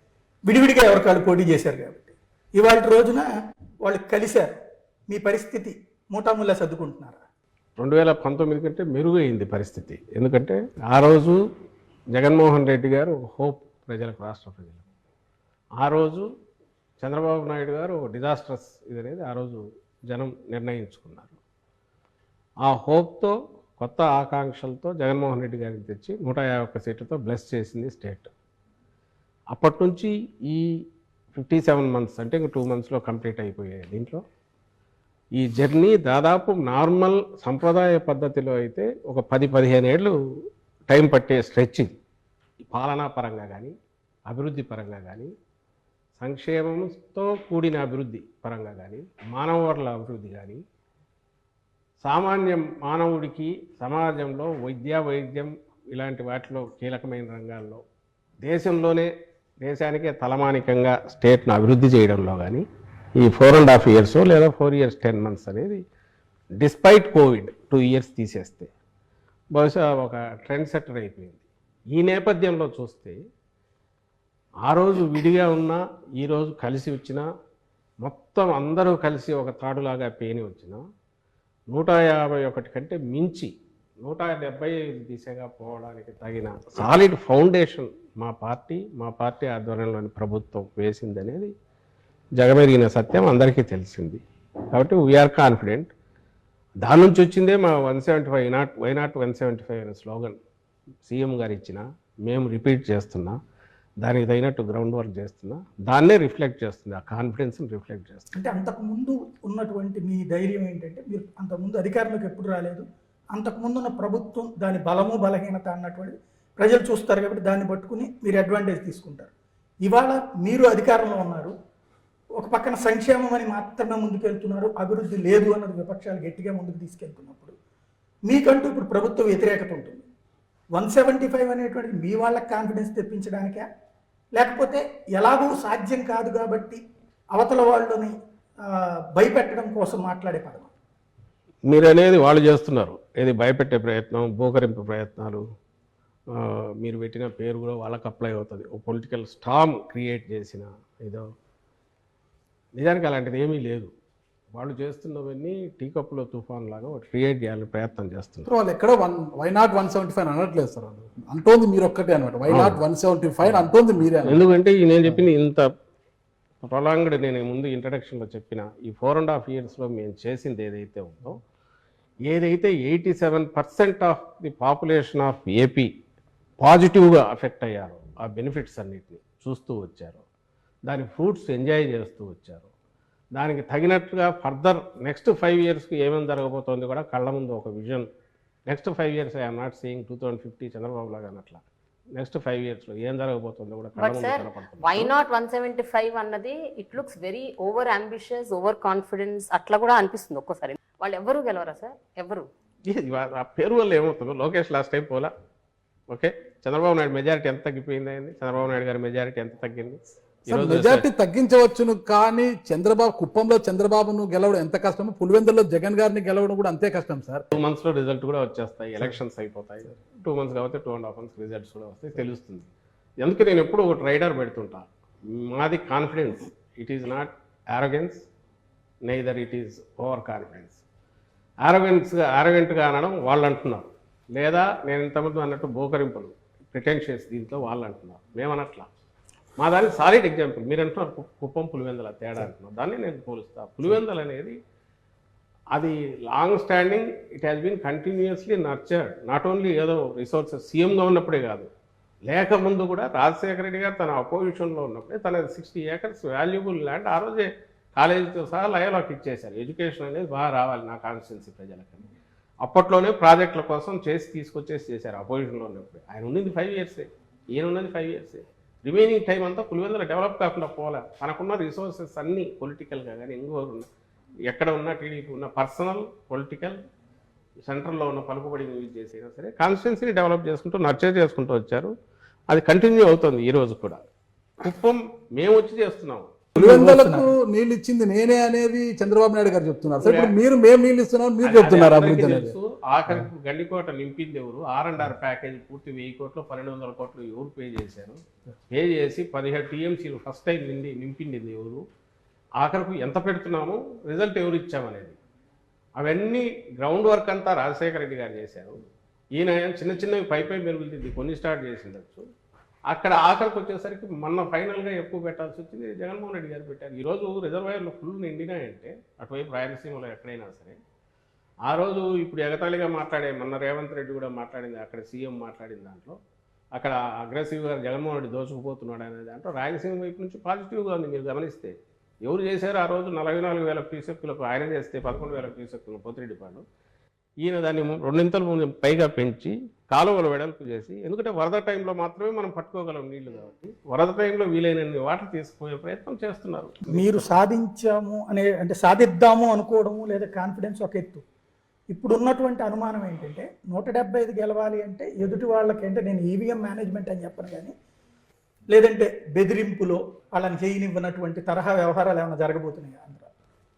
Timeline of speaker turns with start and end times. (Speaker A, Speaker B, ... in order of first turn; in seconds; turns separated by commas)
Speaker A: 0.5-3.2, Speaker A: 3.8-4.5, Speaker A: 5.1-7.2, Speaker B: 7.8-11.4, Speaker B: 12.1-14.8, Speaker B: 15.8-16.2, Speaker B: 17.0-21.4, Speaker B: 22.6-28.3, Speaker B: 29.5-30.7, Speaker B: 31.4-34.2, Speaker B: 35.4-40.1, Speaker B: 40.9-41.9, Speaker B: 42.7-43.7, Speaker B: 44.3-45.3, Speaker B: 46.2-50.6, Speaker B: 52.0-57.8, Speaker B: 58.4-59.1, Speaker B: 59.6-62.6, Speaker B: 63.2-65.8, Speaker B: 66.6-68.7, Speaker B: 69.5-73.2, Speaker B: 74.7-77.2, Speaker B: 78.0-80.8, Speaker B: 81.7-83.5, Speaker B: 84.0-91.5, Speaker B: 92.4-94.2, Speaker B: 94.7-95.9, Speaker B: 96.8-100.4, Speaker B: 101.0-103.3, Speaker B: 104.0-108.4, Speaker A: 108.3-119.3, Speaker A: 119.8-121.5, Speaker A: 122.4-127.5, Speaker A: 128.3-130.0, Speaker A: 130.7-133.6, Speaker A: 134.3-136.8, Speaker A: 137.3-138.1, Speaker A: 139.1-140.7, Speaker B: 141.7-145.4, Speaker B: 146.3-151.2, Speaker B: 152.8-153.9, Speaker B: 154.5-158.5, Speaker C: 158.4-164.4, Speaker B: 162.5-162.8, Speaker B: 164.2-165.7, Speaker B: 166.6-171.4, Speaker B: 172.2-175.9, Speaker B: 176.6-180.2, Speaker B: 180.8-182.7, Speaker B: 183.3-188.1, Speaker B: 188.7-191.6, Speaker B: 192.1-195.1, Speaker D: 193.9-202.5, Speaker B: 202.9-205.3, Speaker B: 206.1-209.9, Speaker B: 210.5-211.1, Speaker C: 210.5-217.4, Speaker B: 217.5-222.7, Speaker B: 223.2-228.2, Speaker B: 229.1-230.8, Speaker B: 231.6-238.9, Speaker B: 239.6-244.5, Speaker B: 245.7-251.7, Speaker B: 252.2-262.1, Speaker B: 262.6-273.9, Speaker B: 274.5-276.8, Speaker B: 277.6-281.9, Speaker B: 282.5-284.1, Speaker B: 284.6-286.3, Speaker C: 286.5-292.6, Speaker A: 286.6-287.3, Speaker B: 290.0-290.3, Speaker B: 291.4-298.2, Speaker B: 298.7-301.8, Speaker B: 302.6-305.1, Speaker B: 306.0-308.8, Speaker B: 309.4-312.2, Speaker B: 312.9-320.8, Speaker B: 321.6-326.2, Speaker B: 326.7-336.6, Speaker B: 337.4-347.2, Speaker A: 346.9-351.2, Speaker A: 351.9-357.7, Speaker A: 358.7-363.3